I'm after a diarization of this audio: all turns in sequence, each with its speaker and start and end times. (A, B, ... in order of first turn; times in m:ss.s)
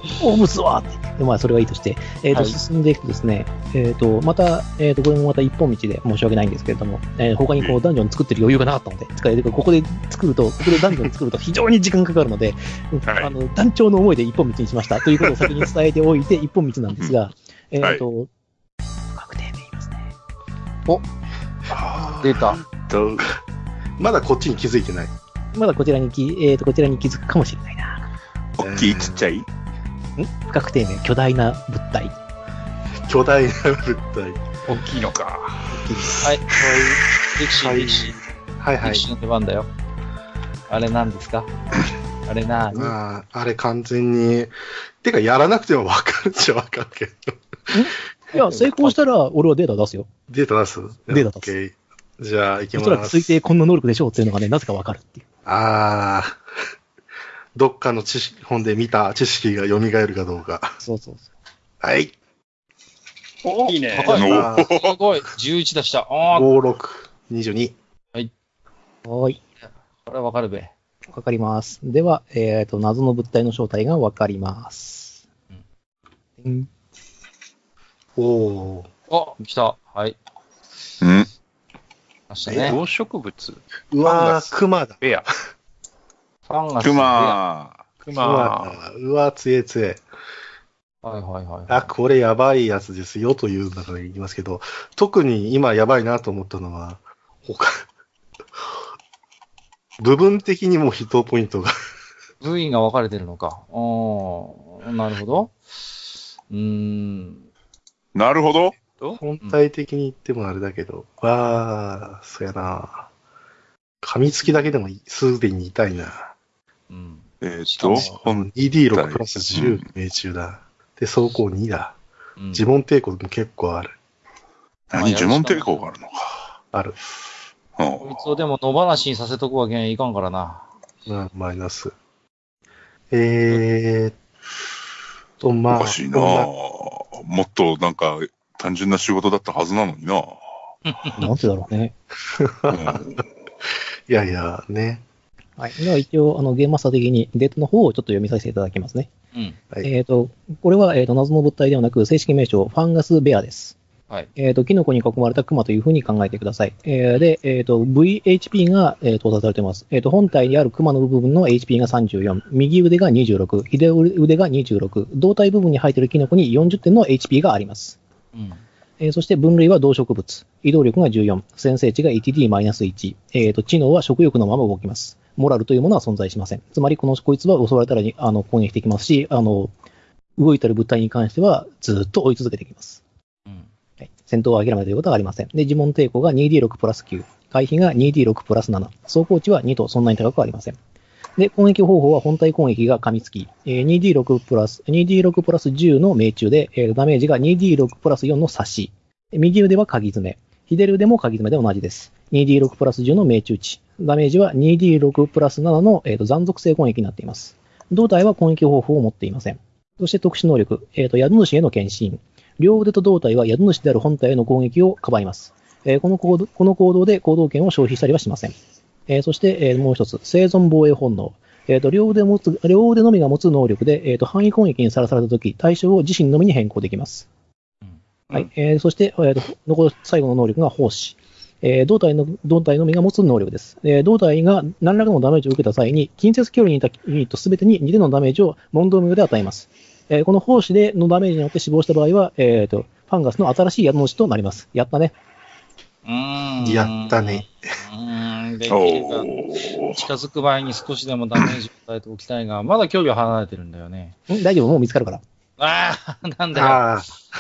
0:00.2-0:18.3 A
0:02.3-0:02.6 B
0:13.1-0:13.4 C
0:19.1-0:20.1 A
0:21.7-0:23.3 C
0:21.9-0:22.2 D
0:22.2-0:22.6 B
0:24.0-0:25.1 D
0:25.5-0:28.1 A
0:28.6-0:29.5 C
0:28.6-0:29.3 D
0:30.2-0:32.2 A
0:33.1-0:34.5 D
0:34.7-0:35.7 E
0:35.7-0:36.2 A
0:36.2-0:36.6 B
0:36.5-0:39.0 D
0:37.3-0:38.2 B
0:38.8-0:39.7 B
0:40.7-0:41.5 B
0:42.3-0:43.0 B
0:42.7-0:47.7 D
0:47.7-0:50.1 A
0:48.3-0:49.0 B
0:50.3-0:53.3 D
0:51.1-0:51.5 A
0:52.8-0:55.2 A
0:55.4-0:56.4 D
0:57.6-1:00.8 D
1:00.8-1:01.3 A
1:01.8-1:02.1 D
1:03.5-1:04.4 E
1:03.9-1:06.5 B
1:03.9-1:04.7 D
1:04.1-1:05.0 C
1:06.3-1:07.8 D
1:09.0-1:09.4 A
1:10.1-1:10.7 B
1:11.1-1:15.2 A
1:16.4-1:16.7 A
1:18.2-1:18.9 D
1:19.1-1:20.2 B
1:21.0-1:21.3 C
1:22.3-1:22.8 B
1:22.5-1:22.8 D
1:22.6-1:25.3 E
1:23.9-1:25.0 D
1:26.5-1:27.4 B
1:26.8-1:27.8 C
1:28.0-1:28.8 E
1:28.2-1:30.0 D
1:31.0-1:31.9 B
1:31.7-1:37.8 D
1:40.0-1:41.7 D
1:42.4-1:45.6 B
1:46.5-1:47.4 B
1:48.2-1:48.8 C
1:49.2-1:53.1 D
1:54.0-1:56.3 D
1:56.9-1:58.2 B
1:57.4-1:59.8 C
1:58.0-2:02.0 D
2:02.4-2:02.6 B
2:02.5-2:04.0 D
2:04.9-2:06.5 C
2:05.0-2:05.9 B
2:07.8-2:08.2 C
2:08.0-2:10.7 B
2:11.1-2:11.9 D
2:13.1-2:14.2 D
2:15.4-2:16.5 D
2:15.7-2:20.4 C
2:20.9-2:21.3 B
2:21.1-2:22.0 A
2:22.3-2:23.2 D
2:22.7-2:23.2 C
2:24.1-2:25.0 D
2:25.6-2:29.1 A
2:29.8-2:33.8 A
2:34.4-2:48.0 A
2:48.3-2:48.6 B
2:49.0-2:59.7 A
3:00.4-3:03.0 A
3:04.0-3:10.8 A
3:11.4-3:38.6 A
3:39.1-3:47.3 A
3:47.8-3:48.4 B
3:48.3-4:05.2 A
4:06.0-4:14.2 B
4:06.6-4:07.5 D
4:08.7-4:10.1 C
4:14.3-4:15.2 A
4:15.6-4:16.8 B
4:16.5-4:17.2 D